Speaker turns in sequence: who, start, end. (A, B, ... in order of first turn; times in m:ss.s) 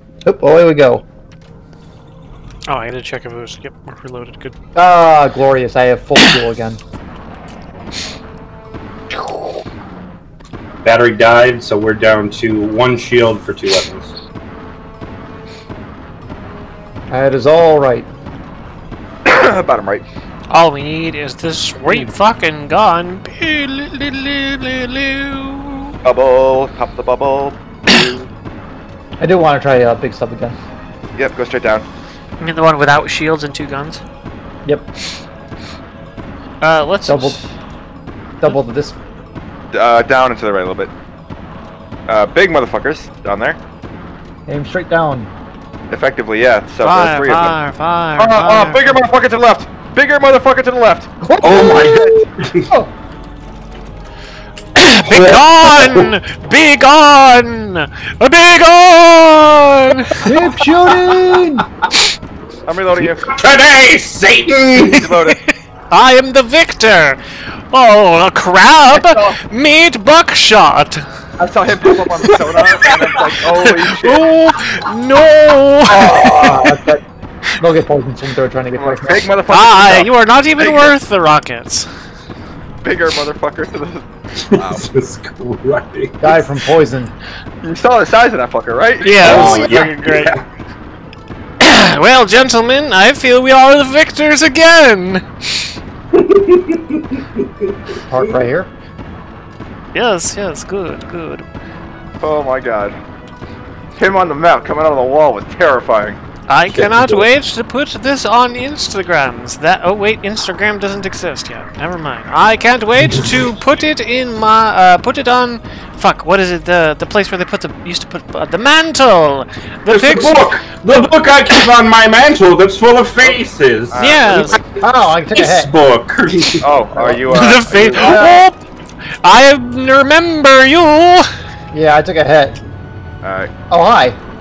0:00.2-0:01.0 A
0:02.7-0:04.6 B
0:04.8-0:06.8 A
0:10.8-0:14.1 C
0:17.1-0:18.1 A
0:19.2-0:20.0 D
0:20.5-0:26.0 B
0:26.0-0:28.0 D
0:27.9-0:28.2 B
0:29.2-0:30.6 A
0:31.2-0:31.9 D
0:32.4-0:34.0 B
0:36.6-0:37.4 B
0:37.1-0:37.4 A
0:38.4-0:39.0 A
0:39.7-0:40.9 D
0:42.1-0:43.6 D
0:44.5-0:45.3 A
0:45.9-0:47.6 D
0:46.8-0:49.0 B
0:48.2-0:51.1 D
0:51.2-0:52.9 A
0:51.4-0:52.7 C
0:54.8-1:00.5 B
0:55.0-0:56.1 C
1:00.2-1:01.7 A
1:02.7-1:03.4 D
1:03.0-1:05.1 C
1:04.8-1:05.4 D
1:04.9-1:07.2 B
1:07.7-1:11.1 B
1:08.9-1:09.4 D
1:11.4-1:14.3 D
1:12.2-1:13.1 C
1:13.5-1:16.6 B
1:16.0-1:17.0 A
1:17.6-1:19.3 A
1:18.8-1:20.9 D
1:19.5-1:21.9 B
1:22.8-1:24.8 D
1:24.5-1:26.4 C
1:26.2-1:27.1 A
1:27.6-1:30.3 D
1:29.0-1:30.4 B
1:29.2-1:30.4 C
1:31.6-1:35.7 B
1:36.1-1:37.8 C
1:38.1-1:38.7 A
1:39.9-1:41.4 B
1:42.2-1:43.0 D
1:44.0-1:46.2 D
1:46.5-2:00.4 B
1:46.7-1:47.3 C
1:59.9-2:04.7 C
2:03.9-2:04.6 D
2:04.0-2:04.6 B
2:04.8-2:05.7 A
2:05.3-2:06.6 C
2:06.6-2:08.4 D
2:06.9-2:07.3 A
2:07.3-2:08.6 B
2:07.9-2:08.4 A
2:09.2-2:11.3 B
2:11.7-2:12.6 A
2:13.2-2:13.5 D
2:13.7-2:14.2 A